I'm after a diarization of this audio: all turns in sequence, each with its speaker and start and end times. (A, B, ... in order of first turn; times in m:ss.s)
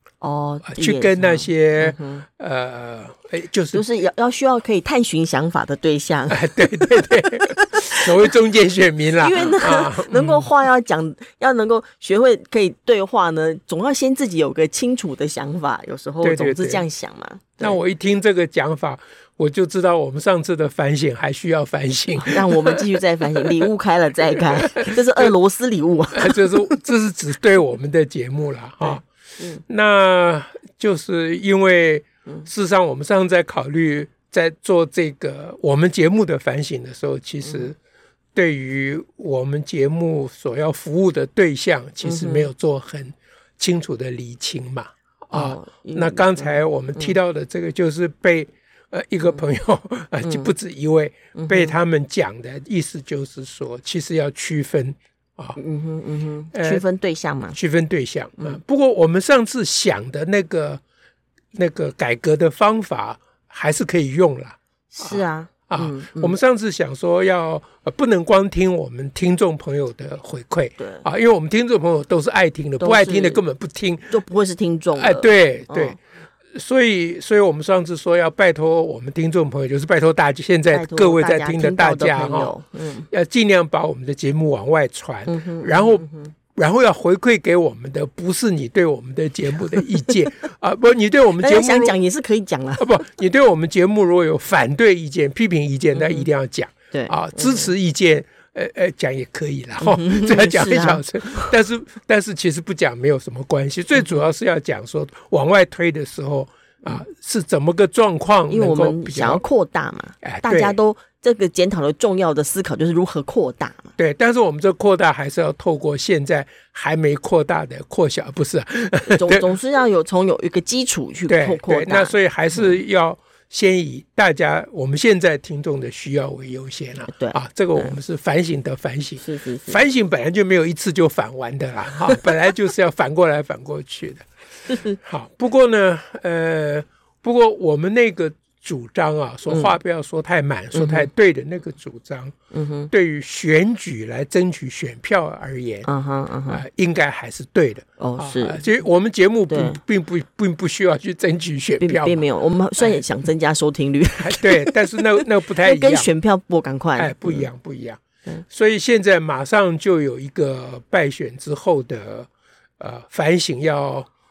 0:00.2-0:02.2 A
0:00.6-0:03.8 B
0:03.7-0:08.3 A
0:06.3-0:10.5 B
0:09.1-0:17.8 A
0:16.2-0:16.8 B
0:17.6-0:22.8 B
0:22.2-0:26.7 A
0:24.5-0:25.3 B
0:26.1-0:29.0 B
0:28.8-0:29.6 A
0:29.7-0:37.8 B
0:38.3-0:55.6 B
0:42.0-0:42.5 A
0:45.3-0:47.2 A
0:51.4-0:51.8 A
0:55.6-0:57.6 A
0:56.5-0:56.8 B
0:57.5-1:00.8 B
1:01.5-1:14.1 B
1:04.9-1:06.3 A
1:10.8-1:11.0 A
1:12.8-1:13.4 A
1:14.1-1:16.0 A
1:14.9-1:16.0 B
1:16.5-1:22.5 B
1:20.7-1:23.1 A
1:23.1-1:32.0 B
1:25.3-1:26.3 A
1:31.4-1:32.9 A
1:32.8-1:49.4 B
1:35.9-1:36.3 A
1:36.9-1:37.7 A
1:39.8-1:41.5 A
1:48.5-1:53.9 A
1:50.2-1:50.8 B
1:54.0-1:59.5 B
1:59.1-2:02.8 A
2:01.3-2:22.3 B
2:07.1-2:08.0 A
2:09.2-2:09.8 A
2:20.7-2:21.1 A
2:22.5-2:22.9 A
2:22.9-2:25.9 B
2:25.8-2:26.6 A
2:26.5-2:32.2 B
2:28.0-2:28.6 A
2:29.5-2:29.8 A
2:31.8-2:37.5 A
2:34.2-2:36.1 B
2:37.0-2:44.1 B